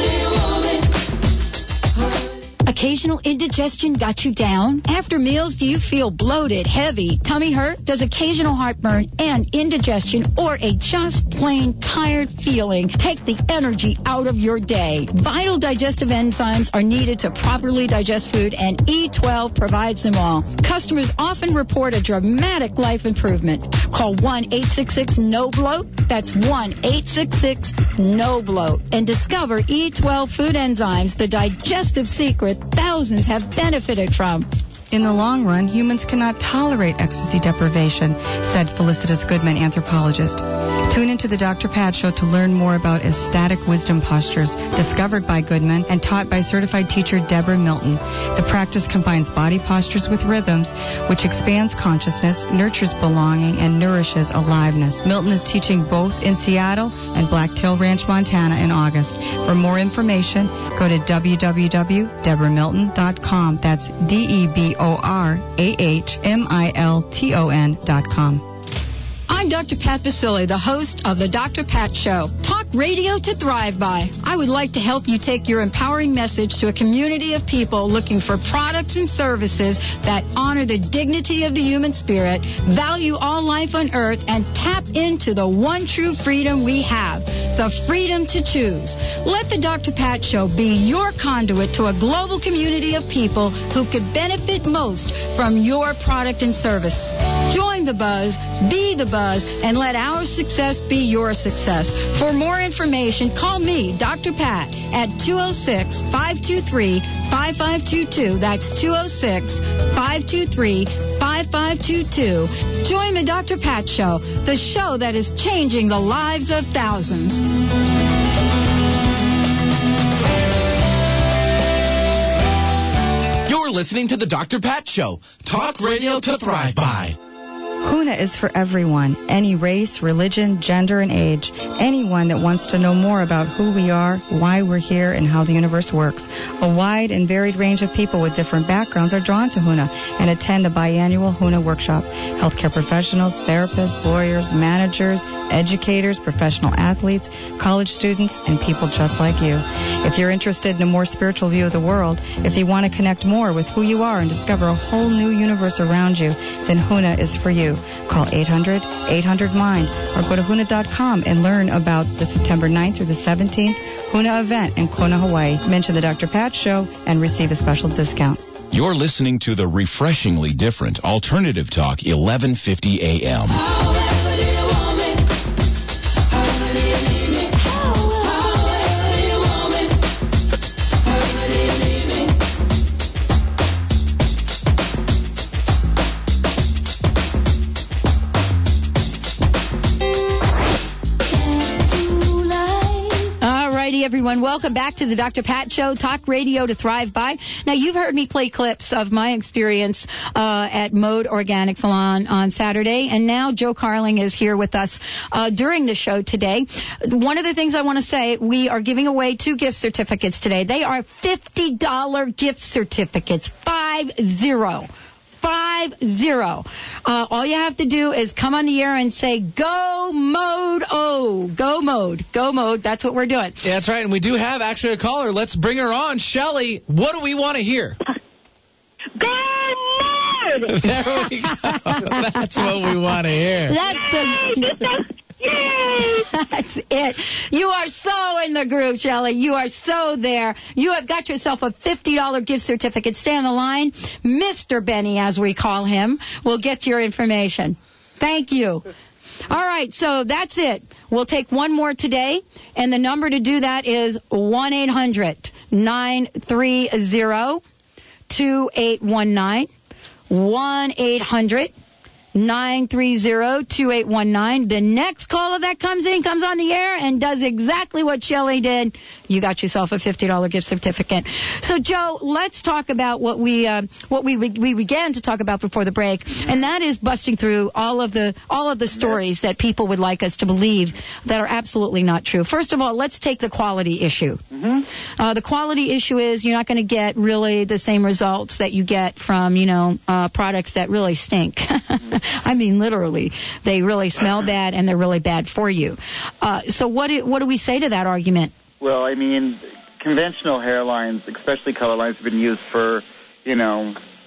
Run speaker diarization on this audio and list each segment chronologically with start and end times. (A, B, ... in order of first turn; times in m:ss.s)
0:02.6-0:34.5 A
0:34.9-1:08.4 B
1:09.3-1:57.4 A
2:03.4-2:07.2 C
2:07.8-2:48.4 B
2:48.7-2:53.6 D
2:58.0-2:58.5 E
3:13.4-3:34.9 A
3:35.4-3:43.6 A
3:43.6-3:48.0 F
3:49.2-3:50.7 E
3:50.7-3:53.8 F
3:53.7-3:54.7 A
3:53.9-3:56.2 E
3:56.3-4:08.9 A
4:09.5-4:17.6 A
4:18.3-4:19.7 A
4:20.3-4:21.7 A
4:22.3-4:44.4 A
4:44.5-4:44.8 G
4:45.2-4:58.5 A
4:58.8-5:04.0 G